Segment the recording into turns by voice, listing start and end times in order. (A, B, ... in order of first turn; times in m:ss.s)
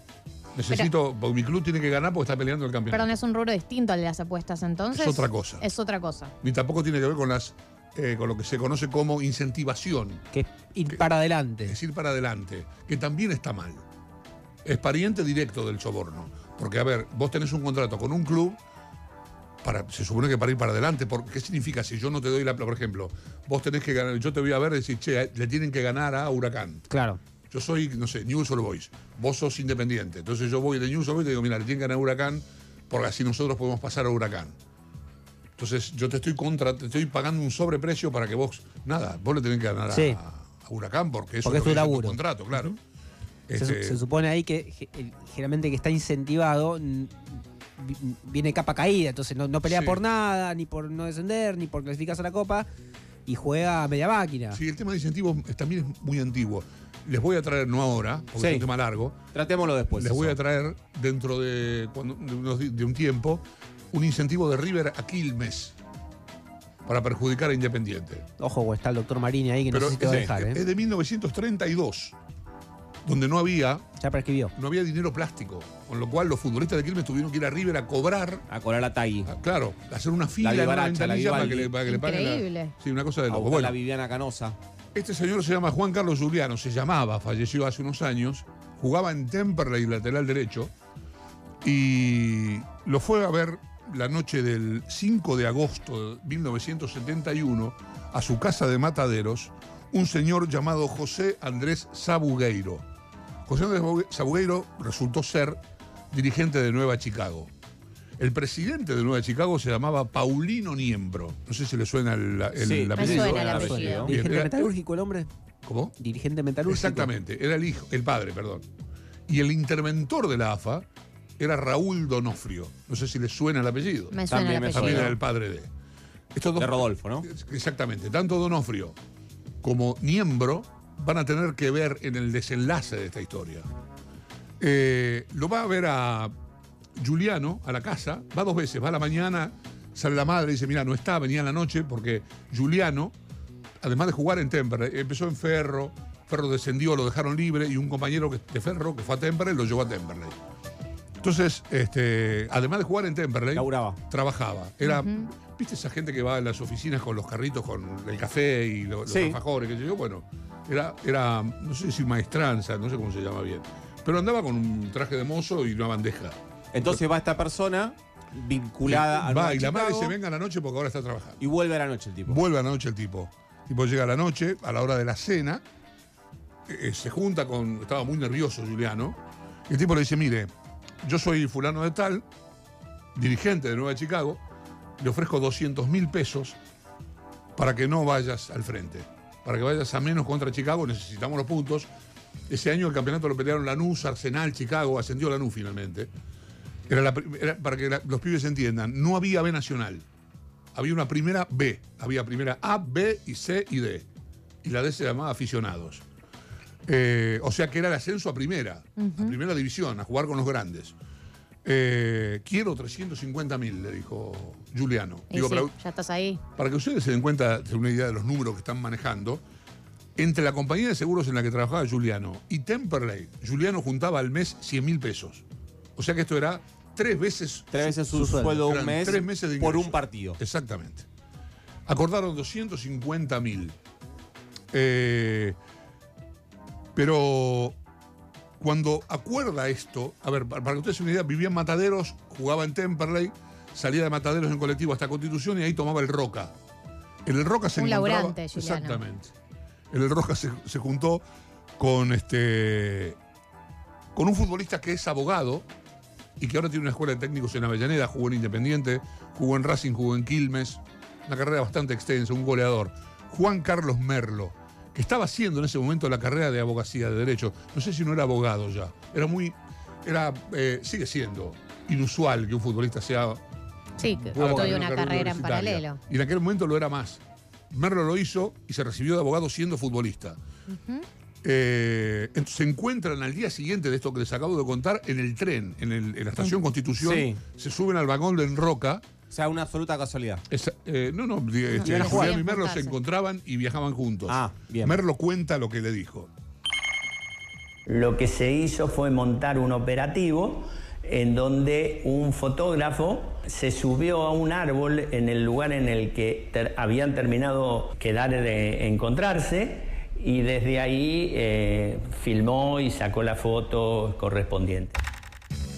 0:00.6-0:03.1 A
0:02.9-0:06.3 B
0:04.9-0:05.6 A
0:06.4-0:10.2 A
0:10.3-0:11.8 C
0:11.7-0:13.8 A
0:14.6-0:18.6 A
0:19.6-0:26.9 A
0:26.9-0:27.2 C
0:27.5-0:34.6 A
0:35.6-0:42.8 A
0:39.9-0:40.2 C
0:41.4-0:42.7 C
0:43.5-0:44.0 A
0:43.6-0:52.7 C
0:49.6-0:50.0 A
0:53.3-0:54.6 C
0:54.5-0:59.2 A
0:58.4-0:58.7 D
0:59.3-1:00.4 D
1:00.0-1:05.8 A
1:06.8-1:08.2 A
1:08.4-1:10.6 C
1:09.7-1:12.2 A
1:10.0-1:10.3 D
1:13.0-1:13.8 A
1:14.0-1:14.5 C
1:14.5-1:18.5 A
1:18.5-1:19.3 D
1:19.3-1:23.8 A
1:20.4-1:21.8 D
1:21.9-1:22.7 B
1:23.3-1:24.6 D
1:25.0-1:30.7 A
1:31.6-1:42.8 A
1:43.5-1:45.6 A
1:46.1-1:47.5 A
1:48.2-1:54.7 A
1:52.6-1:54.1 D
1:53.0-1:54.1 B
1:53.0-1:55.3 C
1:55.6-1:56.0 A
1:56.0-1:57.1 C
1:56.6-1:58.7 A
1:59.3-2:00.9 A
2:01.4-2:05.7 A
2:04.1-2:05.1 B
2:04.3-2:05.2 D
2:06.3-2:09.0 A
2:06.6-2:07.3 D
2:09.6-2:13.7 A
2:14.6-2:16.3 A
2:17.0-2:23.1 A
2:23.8-2:30.4 A
2:31.2-2:47.0 A
2:33.6-2:34.0 D
2:34.8-2:35.1 B
2:39.1-2:39.4 D
2:46.7-2:50.2 D
2:48.8-2:51.4 A
2:51.4-2:52.4 D
2:52.3-2:55.6 A
2:56.7-3:00.5 A
3:01.0-3:02.2 A
3:03.2-3:04.4 A
3:05.0-3:06.6 A
3:07.6-3:11.9 A
3:12.5-3:16.1 A
3:16.9-3:20.0 A
3:20.8-3:24.1 A
3:24.6-3:26.0 A
3:26.9-3:31.0 A
3:29.0-3:29.3 B
3:31.6-3:35.7 A
3:35.3-3:36.4 B
3:36.6-3:39.4 A
3:40.2-3:45.4 A
3:46.0-3:48.0 A
3:47.7-3:50.4 D
3:48.1-3:48.6 C
3:48.6-3:51.0 A
3:51.9-3:53.8 A
3:54.7-3:55.6 A
3:57.0-3:57.8 A
3:58.6-4:06.5 A
4:07.2-4:09.3 A
4:07.8-4:09.0 B
4:09.9-4:11.2 A
4:11.8-4:13.2 A
4:14.2-4:15.7 A
4:16.4-4:33.4 A
4:34.0-4:36.0 B
4:34.3-4:40.4 A
4:40.7-4:41.0 B
4:41.4-4:49.0 A
4:47.0-4:47.4 D
4:49.3-4:50.4 D
4:50.5-4:56.3 A
4:51.8-4:53.0 B
4:51.8-4:52.3 C
4:51.9-4:52.4 D
4:54.3-4:55.0 D
4:57.9-5:15.0 E